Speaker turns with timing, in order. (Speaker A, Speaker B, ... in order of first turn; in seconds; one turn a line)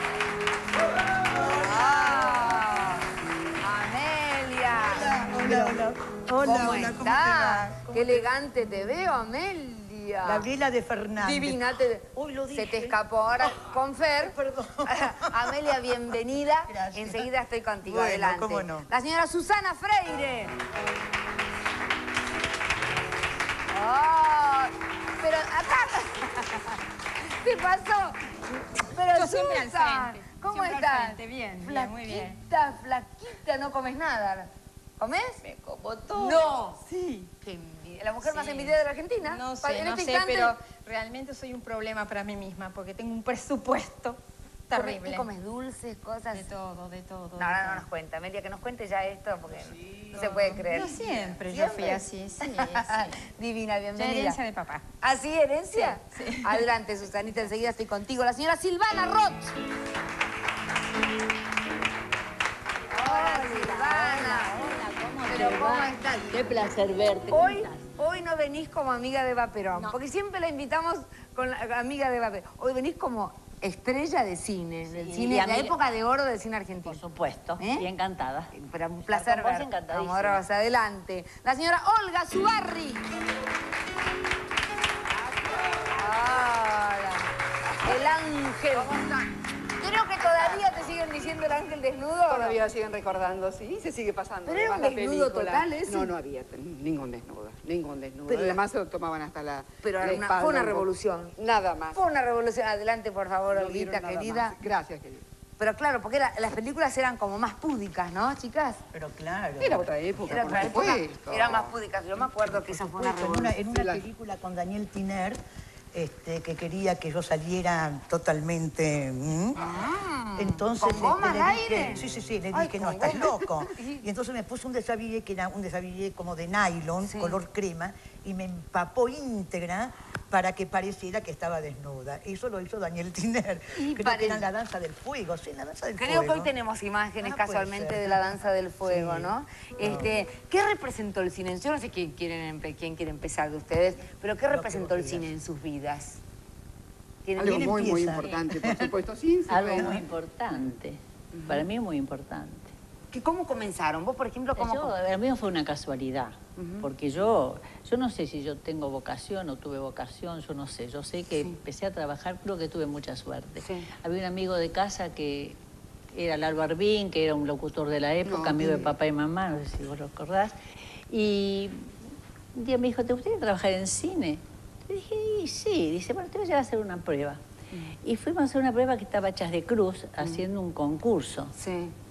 Speaker A: 1.4-2.5
Speaker B: 1.5-3.0
Speaker B: 3.6-5.8
Speaker A: 4.7-8.3
Speaker B: 6.4-10.5
Speaker A: 10.2-13.6
Speaker B: 11.2-14.4
Speaker A: 14.2-16.2
Speaker B: 14.9-20.5
Speaker A: 16.7-18.9
Speaker B: 23.7-35.4
Speaker C: 29.1-32.4
Speaker C: 35.4-37.3
Speaker B: 36.1-36.8
Speaker B: 37.4-40.5
Speaker C: 38.2-45.3
Speaker B: 44.7-46.5
Speaker C: 46.3-47.9
Speaker B: 47.4-54.4
Speaker C: 50.1-53.2
Speaker C: 54.0-54.9
Speaker B: 55.0-59.6
Speaker C: 55.7-56.7
Speaker B: 62.9-64.6
Speaker D: 63.0-67.9
Speaker B: 65.2-66.6
Speaker B: 67.3-77.0
Speaker D: 69.7-70.0
Speaker D: 74.9-75.8
Speaker D: 76.7-78.5
Speaker B: 77.6-77.9
Speaker B: 78.5-83.1
Speaker D: 79.1-80.4
Speaker B: 85.8-87.2
Speaker B: 87.8-89.1
Speaker E: 88.7-89.0
Speaker B: 89.8-92.6
Speaker E: 92.3-102.0
Speaker B: 94.5-96.1
Speaker B: 98.3-98.6
Speaker B: 99.8-101.4
Speaker B: 101.9-104.6
Speaker E: 103.5-105.2
Speaker B: 105.6-108.8
Speaker A: 108.9-110.8
Speaker E: 109.6-114.1
Speaker B: 110.3-113.6
Speaker A: 113.0-115.4
Speaker A: 115.9-119.8
Speaker B: 119.6-124.0
Speaker A: 120.4-136.5
Speaker B: 127.0-127.4
Speaker B: 133.7-134.5
Speaker B: 136.0-146.2
Speaker A: 137.2-140.1
Speaker A: 144.5-145.3
Speaker B: 147.2-147.9
Speaker A: 147.4-148.9
Speaker E: 147.4-150.0
Speaker D: 149.5-152.7
Speaker A: 149.7-150.1
Speaker B: 151.3-151.7
Speaker B: 153.1-154.9
Speaker D: 154.6-165.6
Speaker B: 156.6-156.9
Speaker B: 161.3-161.6
Speaker B: 163.6-163.9
Speaker D: 166.1-171.9
Speaker E: 168.2-168.9
Speaker D: 172.6-177.4
Speaker D: 178.0-181.5
Speaker B: 181.6-181.9